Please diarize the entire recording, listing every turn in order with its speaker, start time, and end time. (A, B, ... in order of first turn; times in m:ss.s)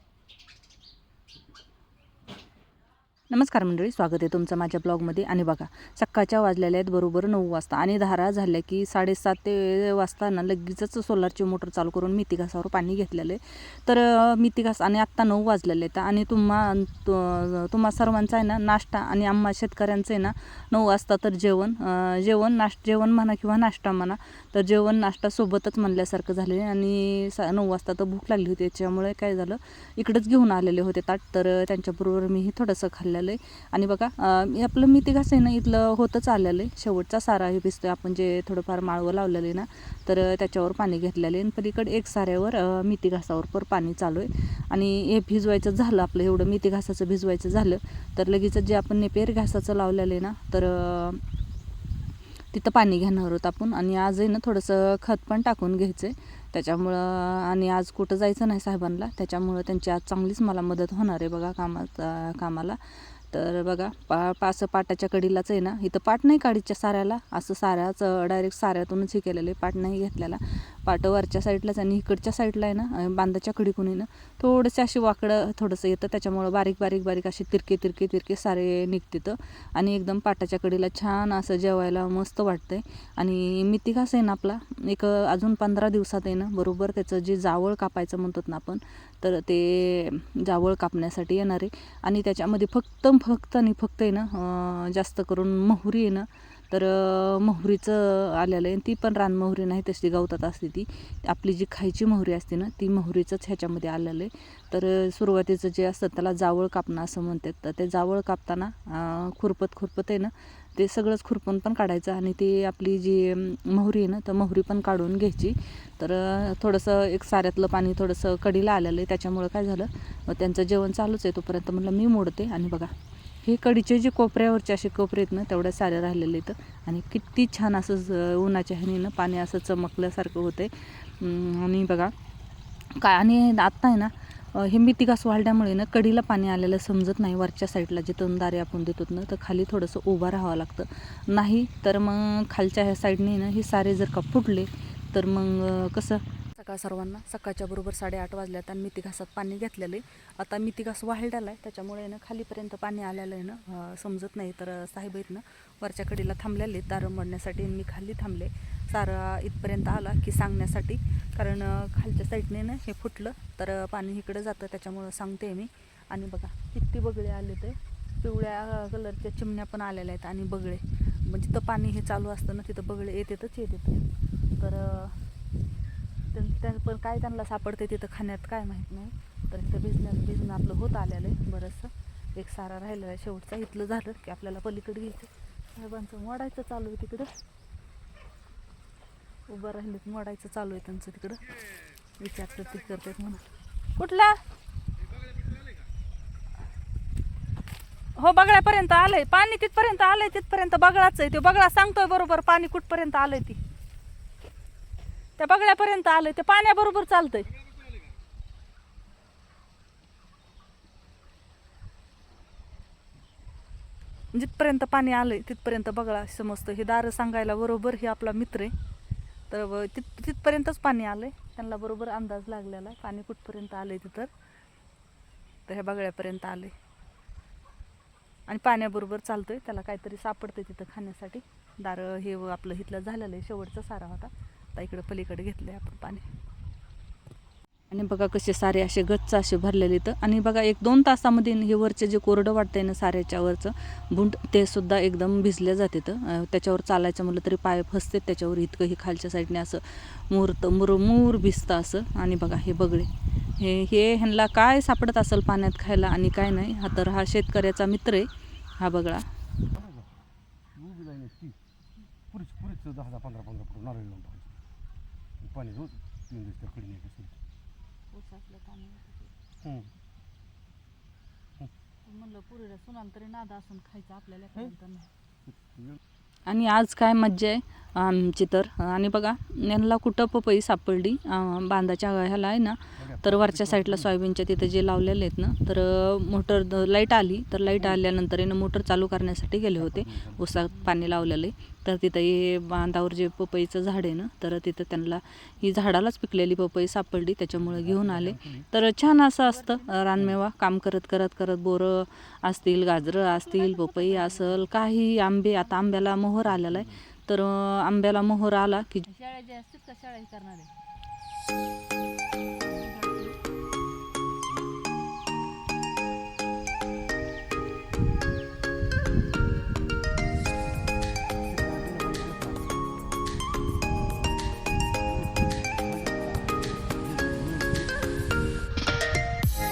0:03.3-0:51.2 A
0:52.5-2:02.9 A
2:03.4-2:12.1 A
2:12.9-2:54.1 A
2:54.6-2:55.2 A
2:56.3-3:07.3 A
3:09.5-3:11.5 A
3:12.2-3:13.4 A
3:14.0-3:14.4 A
3:18.2-3:23.6 A
3:25.4-3:27.5 A
3:34.3-3:38.7 A
3:39.5-3:44.3 A
3:45.7-3:46.8 A
3:48.5-3:56.3 A
3:57.9-4:19.3 A
4:19.7-4:20.1 B
4:20.7-4:21.6 B
4:22.3-4:24.6 B
4:25.4-4:27.4 B
4:28.1-4:29.3 A
4:29.6-4:29.9 B
4:32.0-4:35.1 A
4:35.5-4:36.0 B
4:36.5-5:09.1 A
4:43.0-4:44.1 B
4:49.8-4:50.5 B
4:57.6-4:58.7 B
4:59.6-4:59.9 C
5:03.6-5:04.6 C
5:06.5-5:07.0 B
5:09.1-5:10.7 C
5:12.7-5:13.4 C
5:21.5-5:22.8 B
5:25.1-5:27.9 B